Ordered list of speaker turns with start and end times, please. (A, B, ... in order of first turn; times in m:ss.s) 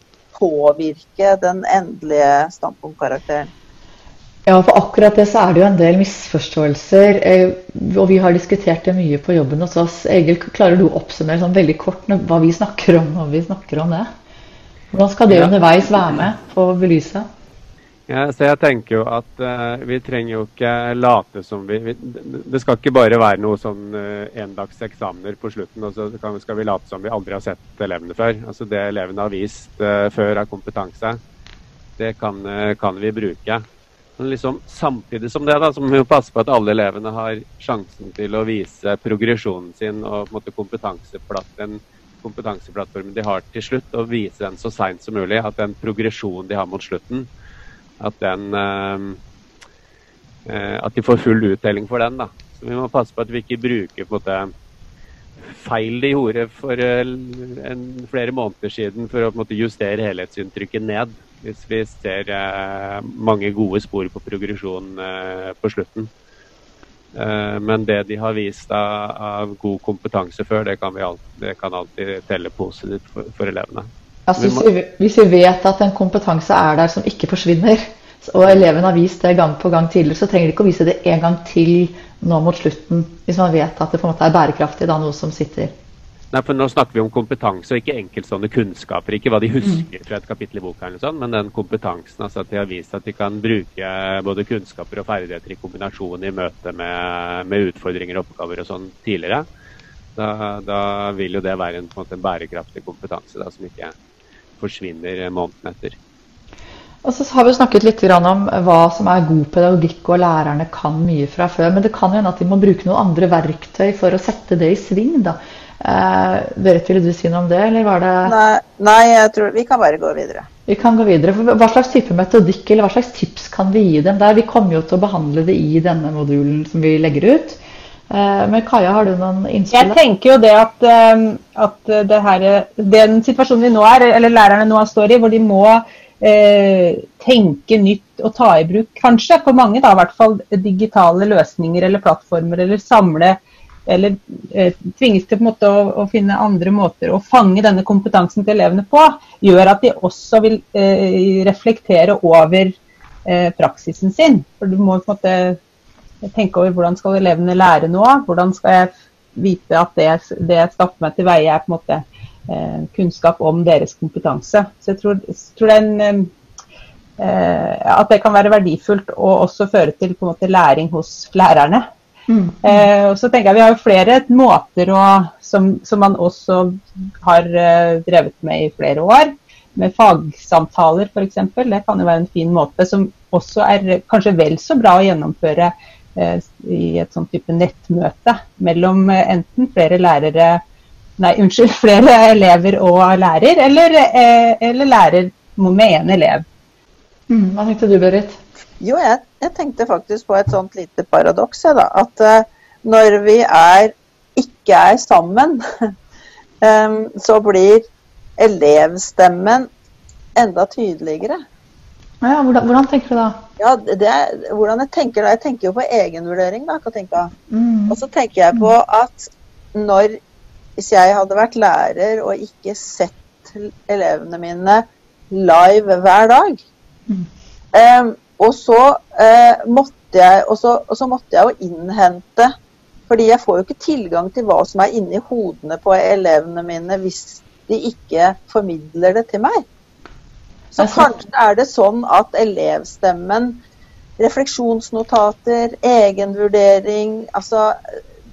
0:00.3-0:03.5 A
0:04.4-0:14.1 B
0:14.9-0:17.2 B
0:18.1-0:31.2 C
0:32.0-0:33.6 C
0:34.2-0:47.3 C
0:48.0-0:49.2 C
0:50.4-0:54.5 C
0:55.4-1:06.1 C
1:07.1-1:14.6 C
1:14.3-1:25.7 B
1:26.3-1:39.5 C
1:40.2-1:43.9 C
1:44.6-1:46.0 C
1:47.0-1:58.3 B
1:58.2-2:00.5 A
2:00.7-2:10.0 B
2:09.7-2:35.6 D
2:36.2-2:46.3 D
2:47.2-2:51.8 D
2:52.3-2:52.9 B
2:52.6-3:10.6 D
3:11.2-3:16.4 D
3:17.3-3:18.4 B
3:18.8-3:25.9 A
3:26.6-3:27.8 A
3:28.4-3:29.7 A
3:30.4-3:31.4 A
3:32.2-3:33.4 B
3:33.6-3:37.3 A
3:37.5-3:38.0 B
3:37.9-3:40.2 A
3:40.8-3:46.6 A
3:47.7-3:52.5 A
3:53.1-3:59.6 A
4:00.7-4:03.6 A
4:00.8-4:01.1 B
4:04.2-4:08.0 A